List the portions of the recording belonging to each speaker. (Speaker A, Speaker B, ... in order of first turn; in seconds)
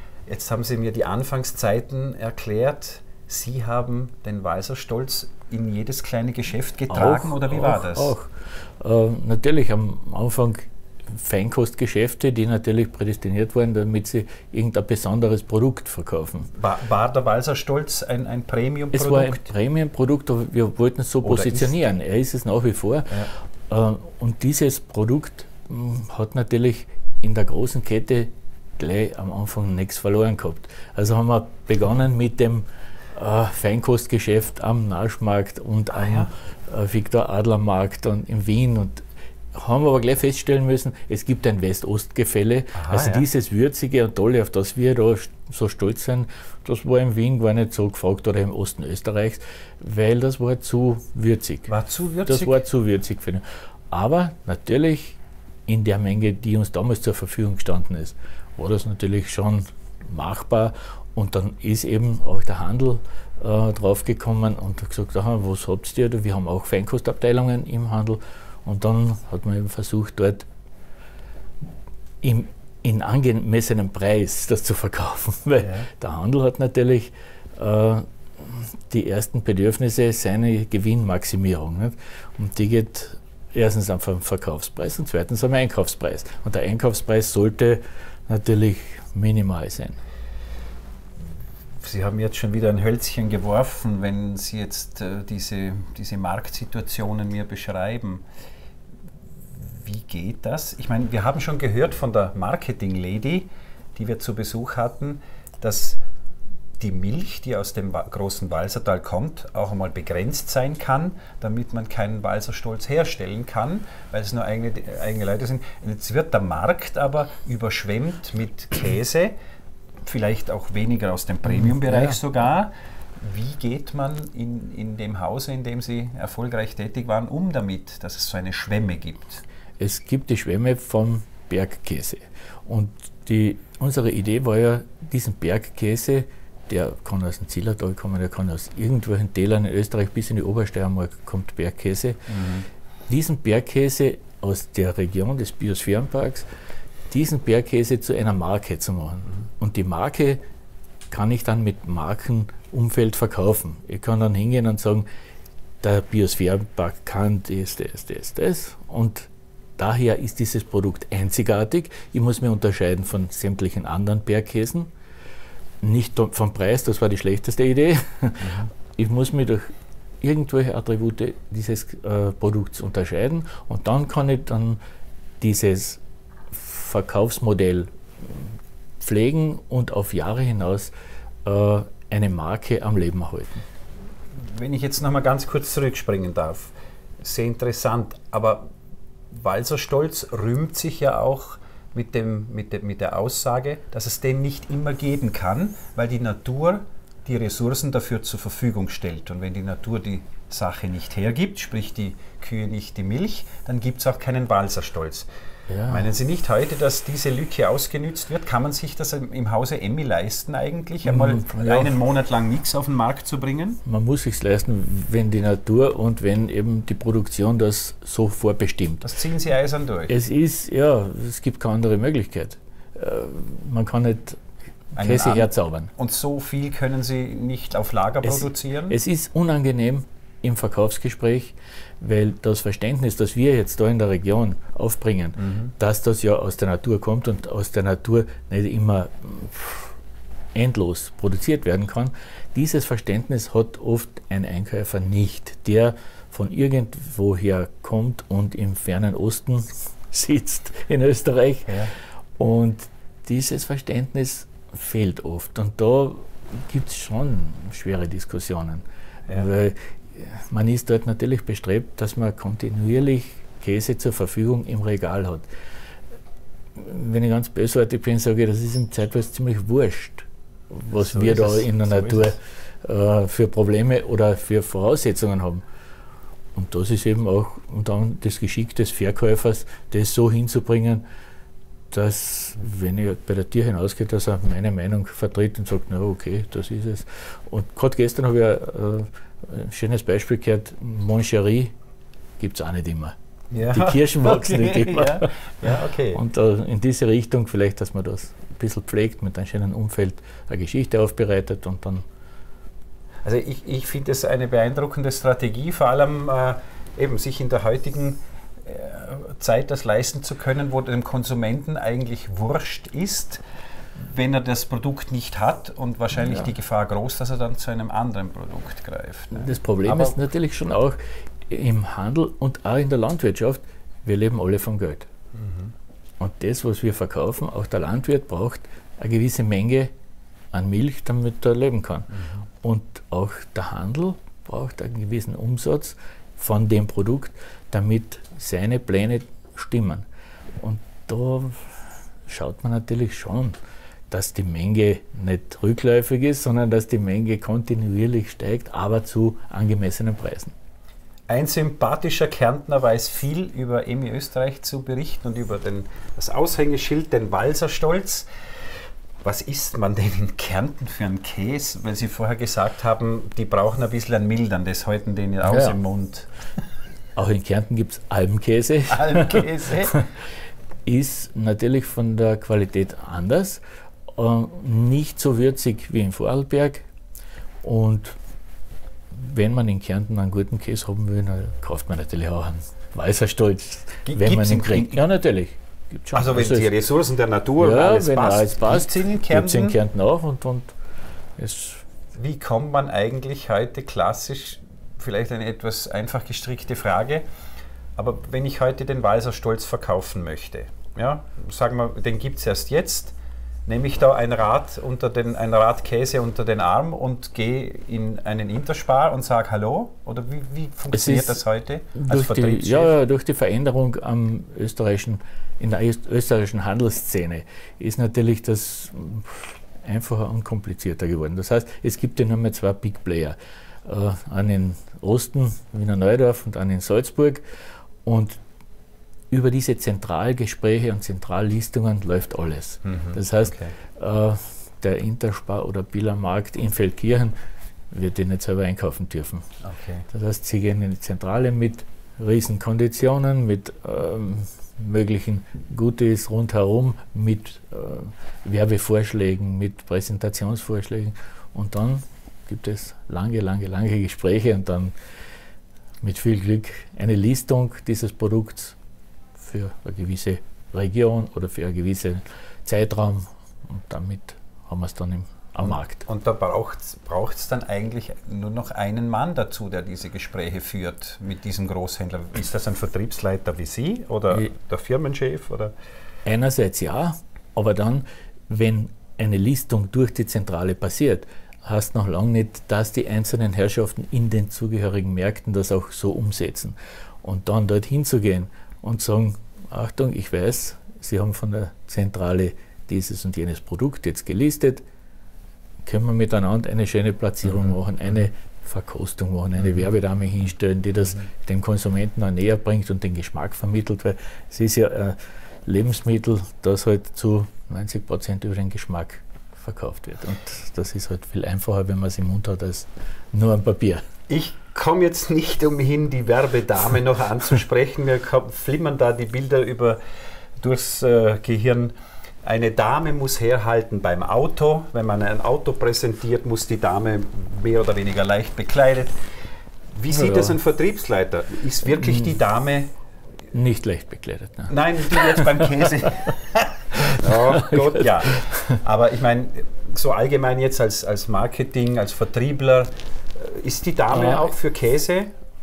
Speaker A: 0.3-8.1, 16.6-19.5, 21.2-21.8, 35.9-36.3, 42.7-43.2, 51.7-52.6, 75.6-75.9, 91.8-98.2, 99.5-106.0, 106.8-119.3, 120.0-129.4, 142.3-142.7, 168.4-168.7, 184.3-188.7, 189.3-205.3, 205.9-213.8, 219.0-220.1, 225.0-229.0, 235.4-235.7, 270.9-272.4, 293.5-296.2, 303.2-313.4, 314.0-320.1, 325.4-325.7, 332.1-332.4, 351.3-358.3, 359.2-366.3, 368.9-370.0, 384.1-385.1, 386.1-389.8, 392.1-397.2, 398.0-403.1, 403.7-412.9, 432.9-433.7, 439.6-440.1, 465.6-475.7, 497.5-497.7, 514.3-520.0, 520.6-529.1, 530.0-532.9, 534.7-545.3
Speaker B: 6.9-16.5, 18.9-39.0, 39.5-51.7, 52.3-70.4, 72.2-90.0, 121.5-122.2, 129.8-142.4, 143.1-146.5, 147.1-150.4, 151.1-155.1, 155.8-164.9, 165.8-174.8, 175.4-176.0, 176.5-180.9, 181.4-183.6, 205.7-206.1, 211.0-212.0, 213.8-219.1, 220.1-224.4, 225.0-225.9, 228.2-240.0, 240.5-265.5, 266.8-275.6, 276.5-281.0, 281.9-291.7, 292.4-293.1, 293.7-302.0, 316.2-316.5, 319.3-325.1, 326.2-329.9, 330.5-340.1, 340.6-343.6, 344.1-350.5, 365.4-365.8, 367.1-370.1, 370.9-373.6, 374.1-376.9, 377.6-378.1, 379.1-386.7, 387.6-390.7, 391.4-391.9, 410.9-411.4, 411.9-427.4, 428.1-428.4, 429.3-437.3, 437.9-439.5, 440.1-454.9, 456.0-458.8, 459.4-466.1, 476.2-494.8, 495.8-514.0, 530.1-530.6, 531.9-532.4, 533.5-536.3, 537.0-538.8, 544.1-544.5